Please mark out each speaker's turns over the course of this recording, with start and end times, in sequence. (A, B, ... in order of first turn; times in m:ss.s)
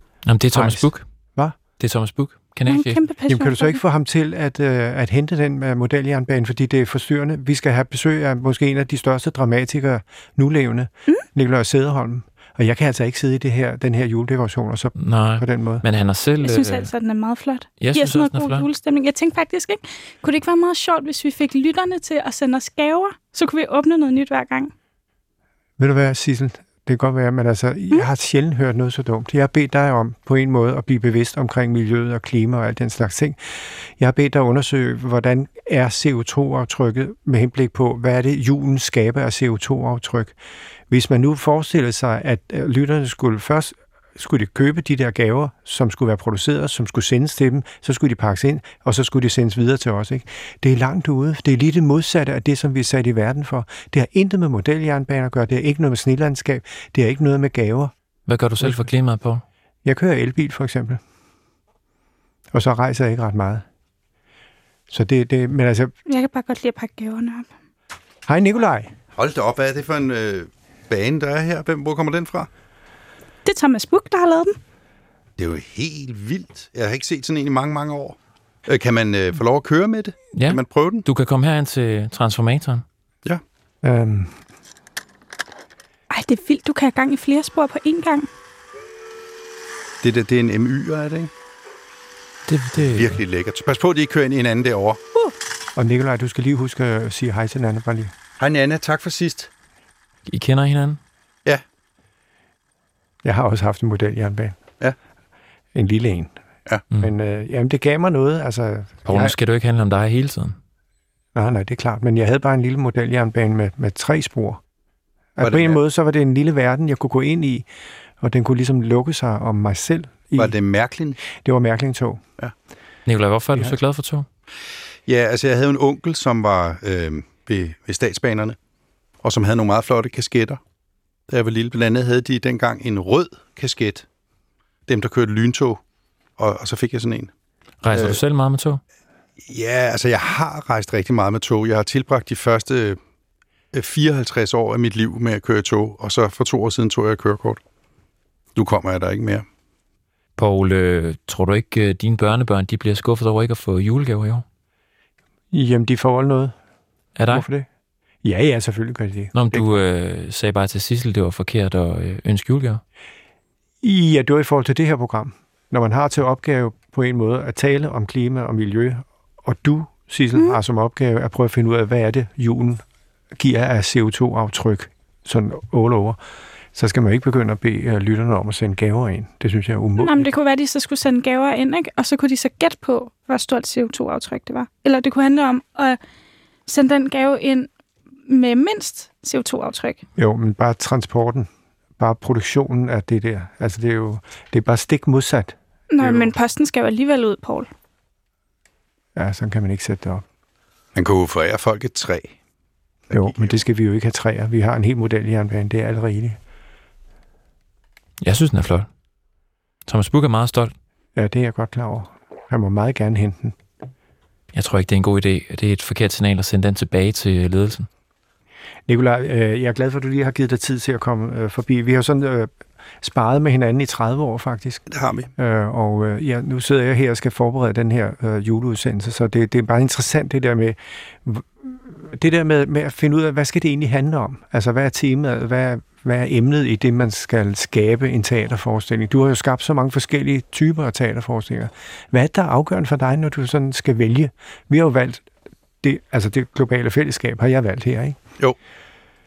0:00.3-0:03.0 A
0:00.5-0:01.6 B
0:02.7-0:03.8 C
0:03.3-0:15.8 B
0:15.0-0:16.9 A
0:16.4-0:24.7 C
0:17.8-0:18.7 A
0:25.8-0:40.4 B
0:40.9-0:57.9 B
0:58.3-0:59.4 A
0:59.8-1:01.0 B
1:02.5-1:03.6 B
1:04.9-1:05.9 B
1:06.1-1:07.5 C
1:08.3-1:08.9 B
1:09.2-1:12.5 D
1:13.4-1:14.6 C
1:15.4-1:21.0 D
1:20.3-1:22.8 A
1:23.8-1:24.4 B
1:26.1-1:28.3 C
1:30.0-1:31.3 D
1:32.5-1:33.2 A
1:32.8-1:35.0 D
1:35.8-1:38.1 B
1:38.4-1:39.5 D
1:40.3-1:41.0 A
1:43.2-1:44.6 B
1:45.7-1:46.3 B
1:47.0-1:49.3 B
1:49.0-1:50.6 A
1:51.4-1:54.6 B
1:55.4-1:57.7 B
1:55.4-1:55.8 D
1:58.2-2:00.6 B
2:00.4-2:01.2 D
2:01.2-2:02.2 B
2:03.1-2:04.3 A
2:05.1-2:08.6 D
2:09.2-2:10.6 D
2:11.3-2:14.0 D
2:14.9-2:15.8 D
2:16.4-2:17.3 D
2:17.8-2:18.8 A
2:17.9-2:18.2 D
2:19.4-2:23.0 D
2:23.7-2:27.6 D
2:28.6-2:29.4 D
2:30.4-2:34.4 A
2:35.5-2:36.6 B
2:37.2-2:37.5 A
2:37.3-2:37.7 B
2:38.2-2:39.7 B
2:39.3-2:42.8 A
2:43.8-2:52.8 B
2:53.4-2:56.2 B
2:56.7-3:00.3 B
3:00.0-3:06.0 C
3:06.7-3:07.7 C
3:08.3-3:10.0 C
3:10.2-3:16.3 B
3:15.9-3:17.7 C
3:19.2-3:20.2 B
3:21.0-3:22.3 D
3:23.1-3:23.6 D
3:23.1-3:26.4 B
3:28.2-3:28.9 A
3:29.9-3:30.7 A
3:31.2-3:33.6 B
3:34.5-3:37.9 A
3:38.9-3:44.8 B
3:44.9-3:45.3 D
3:45.4-4:05.3 B
4:05.8-4:08.2 B